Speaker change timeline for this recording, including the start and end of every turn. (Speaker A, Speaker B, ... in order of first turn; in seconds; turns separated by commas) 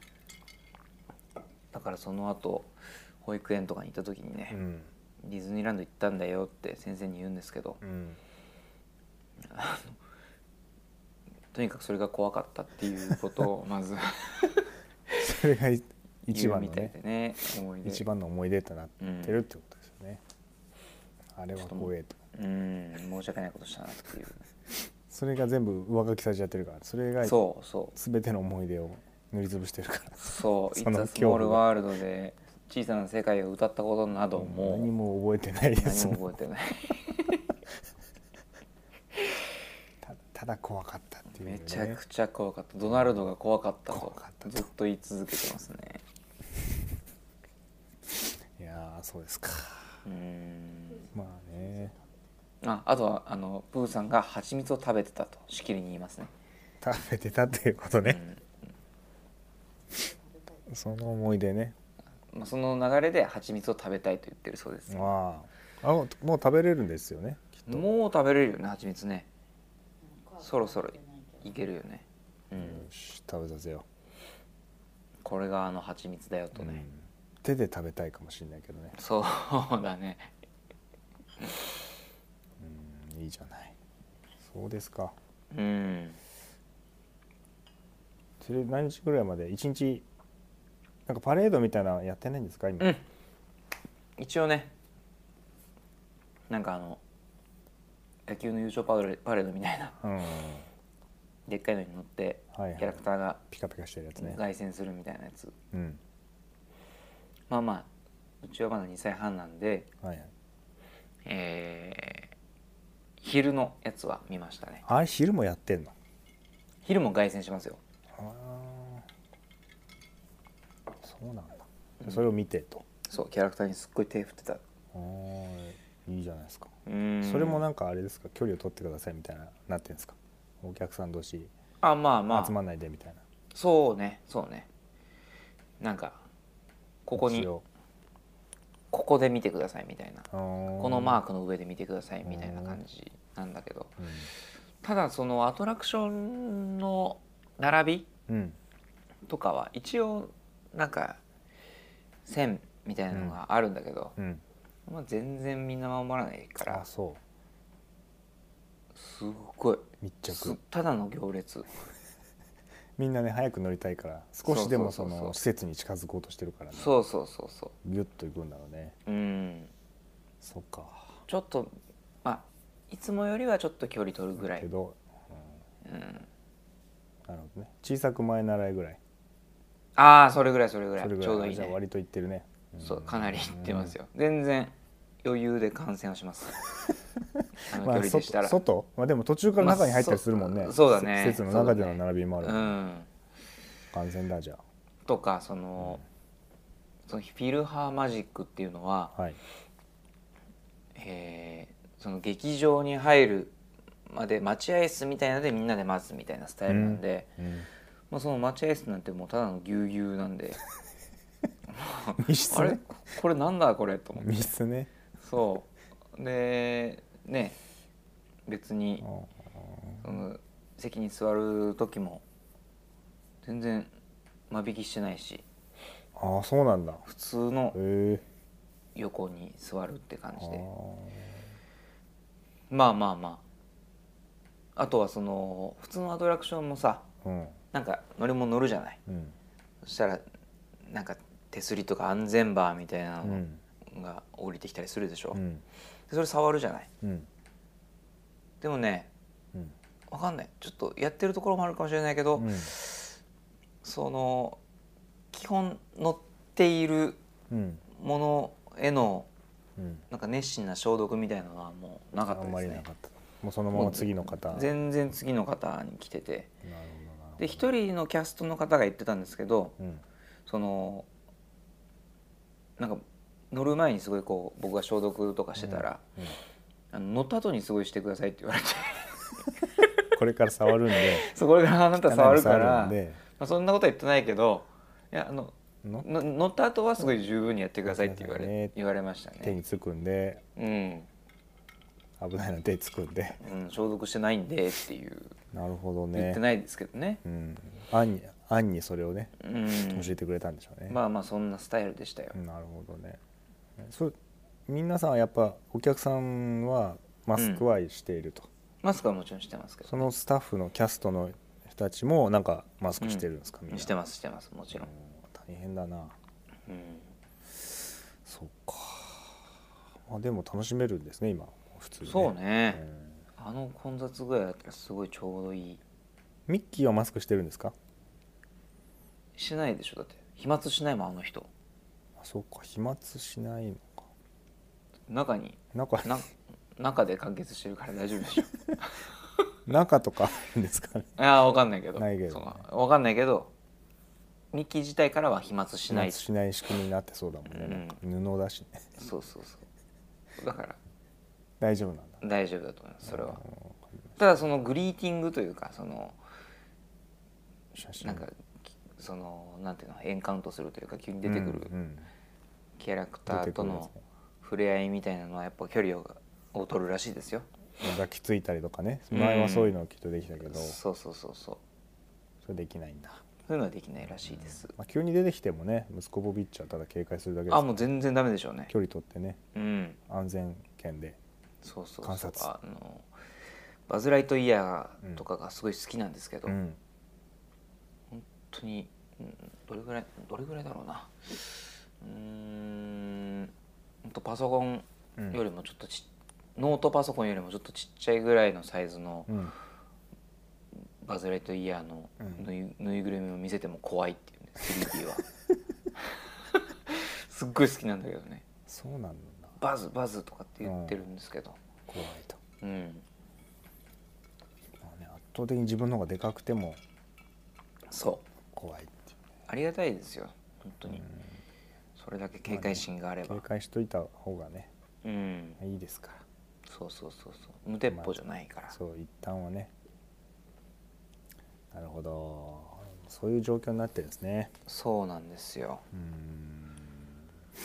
Speaker A: 1.7-4.6, Speaker B: 4.5-4.9, Speaker A: 5.2-7.8, Speaker B: 7.8-8.2, Speaker A: 9.4-10.0, Speaker A: 11.5-15.2, Speaker B: 15.2-16.9, Speaker A: 16.3-18.1, Speaker B: 17.8-20.2, Speaker A: 19.0-19.4, Speaker B: 21.3-22.2, Speaker A: 21.6-24.4, Speaker B: 25.1-27.4, Speaker A: 27.2-27.9, Speaker B: 27.9-31.6, Speaker A: 30.2-34.9, Speaker B: 34.3-36.2, Speaker A: 35.8-37.5, Speaker B: 40.0-42.0, Speaker A: 41.3-46.0, Speaker B: 43.9-44.7, Speaker B: 48.5-50.0, Speaker A: 50.0-51.1, Speaker C: 50.9-52.2, Speaker B: 51.1-51.9, Speaker A: 52.6-56.3, Speaker B: 56.8-58.2, Speaker A: 58.0-58.4, Speaker C: 59.9-60.6, Speaker B: 60.7-61.8, Speaker A: 62.3-65.1, Speaker B: 64.9-67.8, Speaker A: 67.7-69.3, Speaker C: 70.0-71.5, Speaker A: 70.4-72.9, Speaker B: 72.5-73.8, Speaker A: 75.2-76.9, Speaker B: 76.5-79.0, Speaker A: 79.0-80.3, Speaker B: 82.6-83.8, Speaker B: 84.4-85.2, Speaker A: 85.5-86.2, Speaker B: 88.4-90.0, Speaker B: 91.0-92.9, Speaker A: 94.2-94.7, Speaker A: 96.5-97.0, Speaker A: 98.3-100.0, Speaker B: 100.0-100.7, Speaker A: 101.5-103.4, Speaker B: 102.5-104.4, Speaker A: 104.2-105.5, Speaker B: 105.7-106.0, Speaker A: 107.5-107.9, Speaker A: 108.4-109.9, Speaker B: 110.0-110.3, Speaker A: 111.2-112.3, Speaker A: 113.2-114.8, Speaker B: 114.8-115.9, Speaker A: 116.8-117.8, Speaker B: 118.1-119.0, Speaker B: 121.0-122.8, Speaker A: 123.0-124.6, Speaker B: 124.9-131.5, Speaker A: 126.8-127.6, Speaker A: 131.8-132.6, Speaker B: 132.3-133.2, Speaker A: 133.5-134.7, Speaker A: 135.8-136.2, Speaker A: 137.0-137.5, Speaker B: 137.2-137.6, Speaker A: 138.9-144.0, Speaker B: 140.3-141.2, Speaker B: 142.2-142.8, Speaker B: 144.0-144.3, Speaker A: 144.8-148.1, Speaker B: 148.3-148.6, Speaker A: 149.3-151.2, Speaker A: 152.2-154.1, Speaker B: 153.1-153.4, Speaker B: 154.2-154.4, Speaker A: 154.9-156.8, Speaker B: 156.6-157.2, Speaker A: 158.9-161.7, Speaker B: 160.0-160.6, Speaker B: 163.0-167.0, Speaker A: 164.4-165.4, Speaker A: 166.7-167.7, Speaker B: 167.8-168.9, Speaker A: 169.1-169.7, Speaker B: 170.4-171.2, Speaker A: 171.3-174.7, Speaker B: 174.3-175.5, Speaker A: 175.8-176.3, Speaker B: 177.2-179.0, Speaker A: 179.9-181.8, Speaker B: 181.0-183.9, Speaker A: 182.8-186.7, Speaker A: 187.7-188.6, Speaker B: 187.7-192.8, Speaker A: 189.6-193.1, Speaker B: 193.9-194.6, Speaker A: 195.1-196.0, Speaker A: 197.1-199.1, Speaker B: 199.1-199.4, Speaker A: 200.9-203.5, Speaker A: 204.1-207.3, Speaker B: 206.7-207.7, Speaker A: 208.1-210.6, Speaker A: 211.7-214.5, Speaker B: 212.2-212.8, Speaker B: 214.2-214.9, Speaker A: 215.2-217.6, Speaker A: 218.5-219.1, Speaker B: 219.0-220.0, Speaker A: 220.0-222.2, Speaker A: 223.4-223.9, Speaker A: 224.5-225.4, Speaker B: 226.2-227.0, Speaker A: 227.1-227.8, Speaker B: 227.7-228.2, Speaker A: 228.9-230.7, Speaker B: 230.3-231.5, Speaker A: 232.7-233.4, Speaker A: 234.8-237.1, Speaker B: 237.2-237.6, Speaker A: 237.7-239.0, Speaker B: 239.1-239.3, Speaker A: 239.8-240.2, Speaker A: 240.8-245.4, Speaker B: 243.2-243.6, Speaker B: 245.3-245.6, Speaker A: 246.1-246.9, Speaker B: 247.0-247.3, Speaker A: 248.6-249.1, Speaker A: 250.1-253.2, Speaker B: 252.3-252.7, Speaker A: 253.8-254.6, Speaker A: 255.3-257.2, Speaker B: 257.5-257.8, Speaker A: 257.9-259.3, Speaker B: 259.8-260.0, Speaker A: 260.1-262.8, Speaker B: 262.3-264.7, Speaker A: 263.7-266.5, Speaker B: 266.6-267.7, Speaker A: 267.4-269.8, Speaker B: 269.8-270.0, Speaker A: 270.4-271.1, Speaker A: 272.8-276.0, Speaker B: 275.6-276.4, Speaker A: 276.9-280.0, Speaker B: 280.1-281.3, Speaker A: 280.9-289.6, Speaker B: 282.0-283.2, Speaker B: 287.8-288.7, Speaker B: 289.4-290.4, Speaker A: 290.6-291.1, Speaker B: 292.2-293.4, Speaker A: 293.4-295.4, Speaker B: 295.5-296.4, Speaker A: 296.1-297.2, Speaker B: 297.2-301.0, Speaker A: 299.4-300.1, Speaker A: 300.9-302.4, Speaker B: 302.3-303.2, Speaker B: 303.8-304.1, Speaker B: 304.7-308.5, Speaker A: 307.4-307.6, Speaker A: 308.8-310.1, Speaker B: 309.9-313.9, Speaker A: 313.0-314.9, Speaker B: 314.7-316.2, Speaker A: 316.7-317.1, Speaker B: 318.2-319.4, Speaker B: 320.0-323.2, Speaker A: 322.0-322.8, Speaker A: 323.4-325.8, Speaker B: 326.5-327.7, Speaker A: 329.4-331.5, Speaker B: 332.2-334.1, Speaker A: 335.1-339.0, Speaker B: 335.7-336.2, Speaker B: 339.6-341.2, Speaker A: 341.2-343.5, Speaker B: 341.9-342.6, Speaker A: 344.5-346.2, Speaker B: 345.9-348.8, Speaker A: 347.5-348.0, Speaker A: 349.0-349.6, Speaker A: 350.4-350.8, Speaker B: 351.6-352.2, Speaker A: 352.2-353.4, Speaker B: 353.0-354.2, Speaker A: 354.2-356.2, Speaker B: 357.7-358.2, Speaker A: 358.0-358.4, Speaker A: 358.9-361.7, Speaker B: 361.2-362.1, Speaker A: 362.8-367.4, Speaker B: 363.3-364.0, Speaker B: 367.8-370.8, Speaker A: 369.1-369.8, Speaker A: 370.4-371.6, Speaker B: 372.4-373.2, Speaker A: 373.5-374.7, Speaker B: 374.2-377.9, Speaker A: 377.5-378.7, Speaker B: 378.7-379.4, Speaker A: 379.5-380.0, Speaker B: 380.1-381.2, Speaker A: 381.6-383.1, Speaker B: 382.0-382.5, Speaker A: 383.9-386.6, Speaker B: 386.4-386.8, Speaker A: 388.1-393.5, Speaker A: 394.0-399.3, Speaker B: 395.2-395.4, Speaker B: 399.3-399.5, Speaker A: 401.0-405.3, Speaker B: 402.2-402.5, Speaker A: 406.0-408.4, Speaker B: 408.7-409.6, Speaker A: 409.6-411.6, Speaker B: 410.6-411.0, Speaker B: 411.9-412.4, Speaker A: 412.6-413.0, Speaker B: 414.8-416.8, Speaker A: 417.9-418.2, Speaker B: 418.5-419.1, Speaker A: 419.5-421.1, Speaker B: 420.9-421.2, Speaker A: 422.0-423.4, Speaker B: 422.5-424.7, Speaker A: 425.0-425.6, Speaker B: 425.6-426.2, Speaker A: 426.6-428.8, Speaker B: 428.7-429.7, Speaker B: 431.7-434.5, Speaker A: 434.6-435.8, Speaker B: 435.9-437.2